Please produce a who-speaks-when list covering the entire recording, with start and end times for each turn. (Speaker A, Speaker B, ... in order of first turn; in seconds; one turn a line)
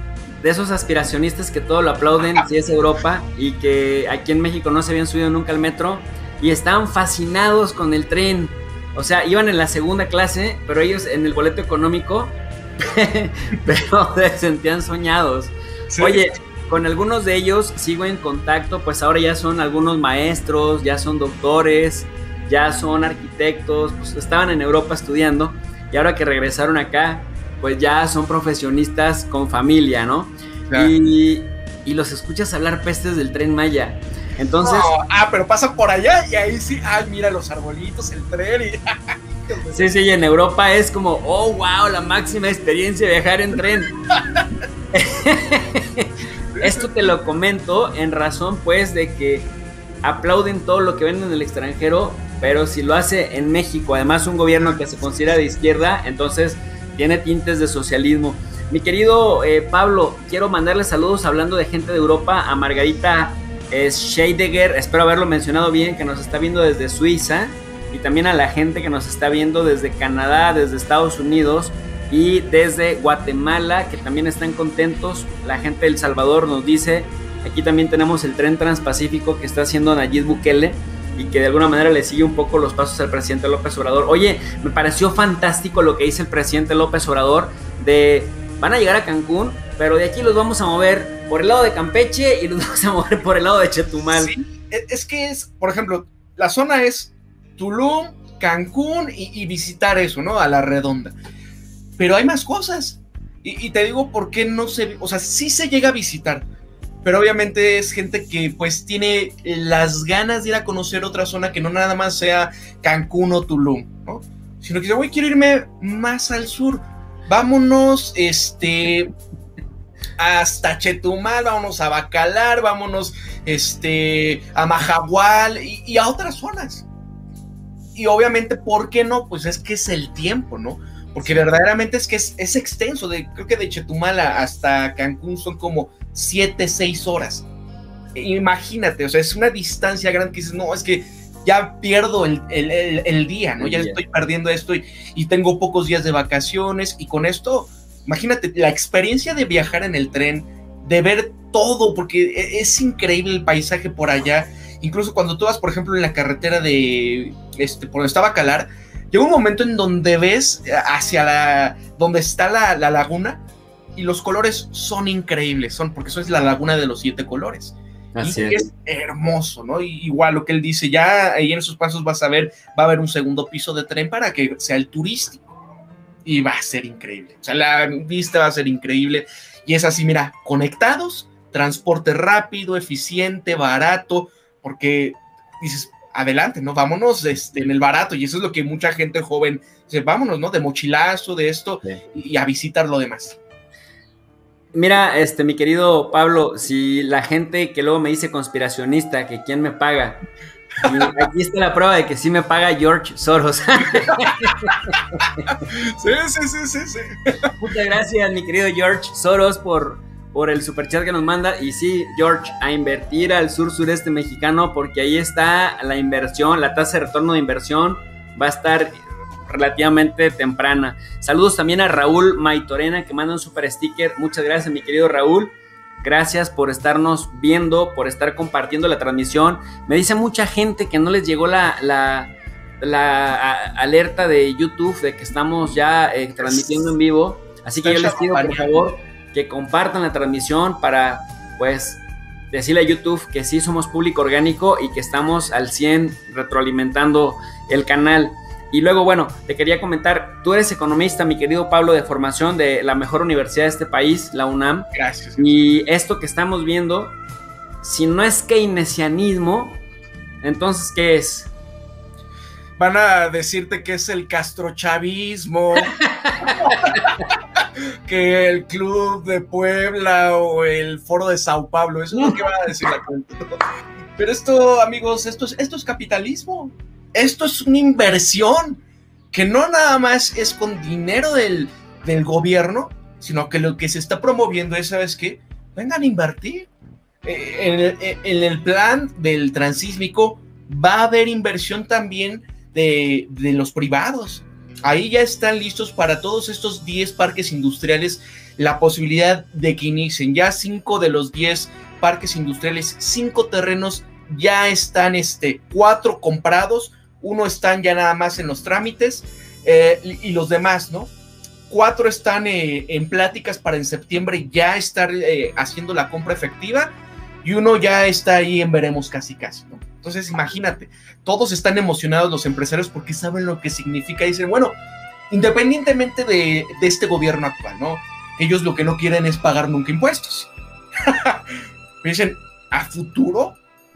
Speaker A: 0.4-34.9
Speaker B: 15.9-16.2
Speaker B: 34.6-39.9
Speaker A: 39.7-43.9
Speaker B: 44.1-44.4
Speaker A: 44.9-49.5
Speaker B: 46.6-46.9
Speaker A: 50.0-94.3
Speaker B: 94.1-101.1
Speaker B: 102.0-106.5
Speaker B: 107.0-119.1
Speaker B: 120.2-126.9
Speaker B: 128.0-137.5
Speaker B: 138.2-163.4
Speaker A: 143.6-144.0
Speaker B: 164.0-175.6
Speaker A: 168.2-168.7
Speaker B: 176.2-193.4
Speaker A: 194.7-200.2
Speaker A: 200.8-205.6
Speaker B: 200.8-201.1
Speaker B: 205.7-207.5
Speaker A: 207.5-257.2
Speaker B: 236.4-236.9
Speaker B: 237.8-238.7
Speaker B: 254.9-255.5
Speaker A: 257.8-259.8
Speaker A: 260.4-261.5
Speaker B: 262.8-267.1
Speaker A: 266.0-267.0
Speaker B: 267.6-273.6
Speaker B: 274.2-278.8
Speaker B: 279.3-286.7
Speaker B: 287.2-311.1
Speaker B: 311.7-324.8
Speaker B: 325.3-330.5
Speaker B: 331.0-331.4
Speaker B: 332.0-333.6